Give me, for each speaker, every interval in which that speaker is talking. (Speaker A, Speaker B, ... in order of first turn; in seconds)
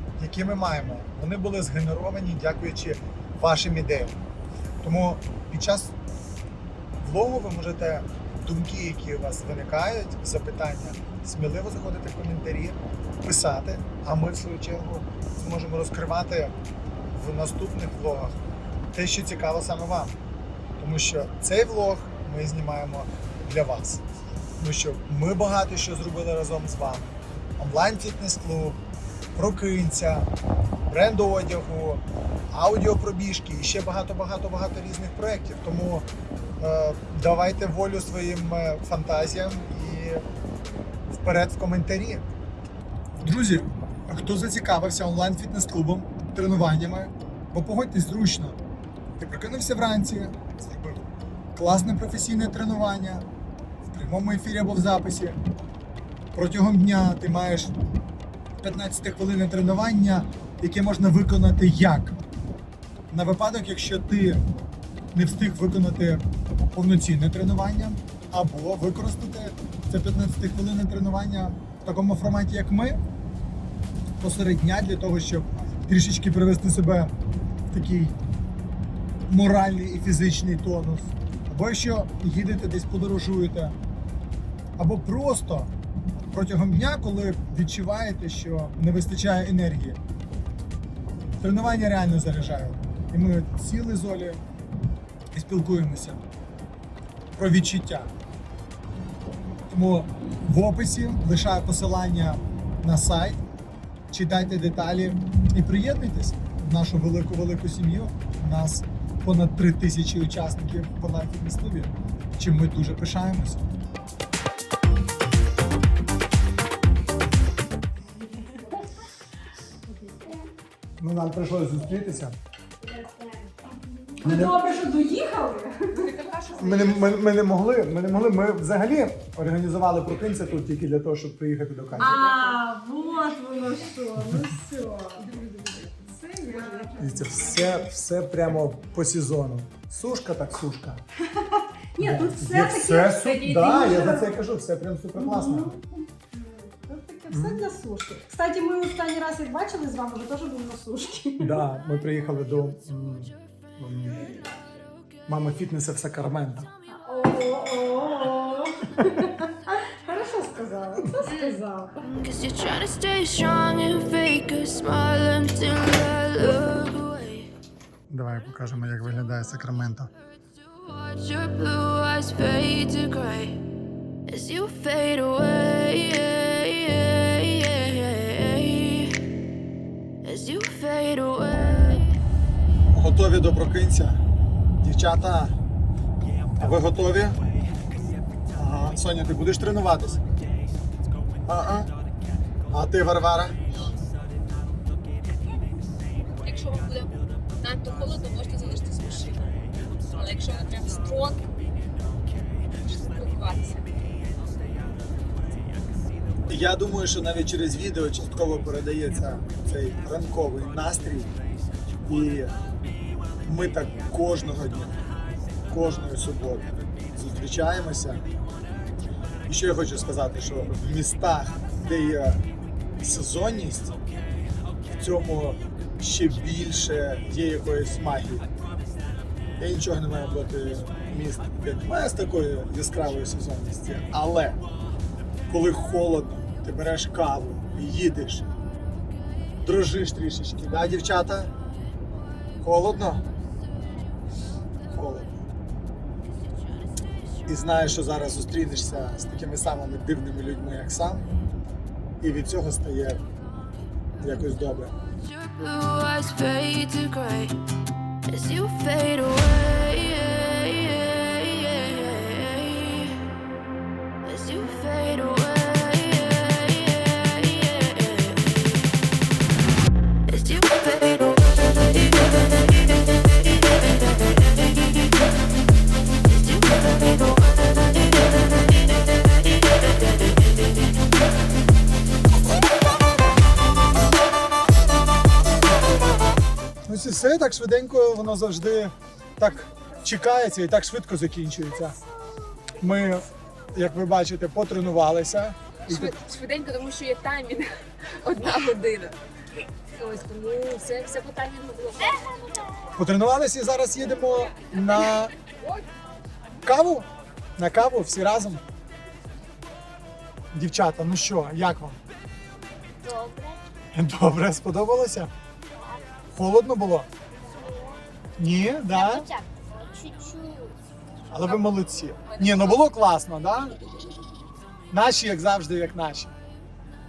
Speaker A: 0.2-4.2, 4.8-5.9, 7.0-16.5, 17.1-18.4, 18.9-20.2, 20.8-24.0, 24.6-28.8, 29.4-30.3, 30.9-36.1, 36.6-40.2, 41.1-42.2, 43.2-48.6, 49.2-53.2, 53.9-55.4, 56.3-57.7, 58.6-62.2, 63.1-64.4, 65.1-73.0, 74.2-77.1, 77.7-78.2, 79.3-83.8, 84.8-85.7, 86.3-90.0, 91.4-94.5, 95.3-96.2, 97.4-98.1, 99.7-103.4, 104.1-113.7, 121.0-122.4, 124.2-124.6, 126.6-132.6, 137.0-141.0, 142.0-145.8, 147.3-147.7, 151.4-154.3, 155.3-156.7, 168.1-170.1, 182.9-184.2, 184.8-185.6, 186.6-187.4, 188.5-190.2, 191.5-191.9, 192.7-193.7, 206.5-211.3, 212.1-212.5, 213.4-215.0, 215.7-218.3, 219.5-222.4, 223.0-224.0, 225.0-228.5, 229.6-234.6, 235.5-238.5, 239.6-241.5, 242.6-243.2, 244.9-245.3, 247.5-251.3, 252.2-253.2, 254.2-254.9, 286.9-292.0, 292.8-296.2, 303.0-305.3, 306.6-307.1, 307.6-308.6, 310.5-312.0, 313.9-315.3, 316.3-317.1, 318.4-319.3, 321.3-323.8, 324.9-326.3
Speaker B: 124.2-126.2, 132.0-137.6, 141.3-144.4, 145.2-151.6, 156.9-162.1
Speaker C: 126.0-127.0, 196.4-201.5, 202.7-203.9, 295.9-299.2, 299.9-302.4, 322.3-322.8
Speaker D: 162.0-167.5, 170.4-173.6, 174.3-179.2, 180.2-182.2, 255.1-257.6, 258.3-263.2, 264.2-268.9, 270.3-275.2, 276.2-280.9
Speaker E: 313.0-313.6, 315.8-316.0, 317.5-318.0, 318.9-320.8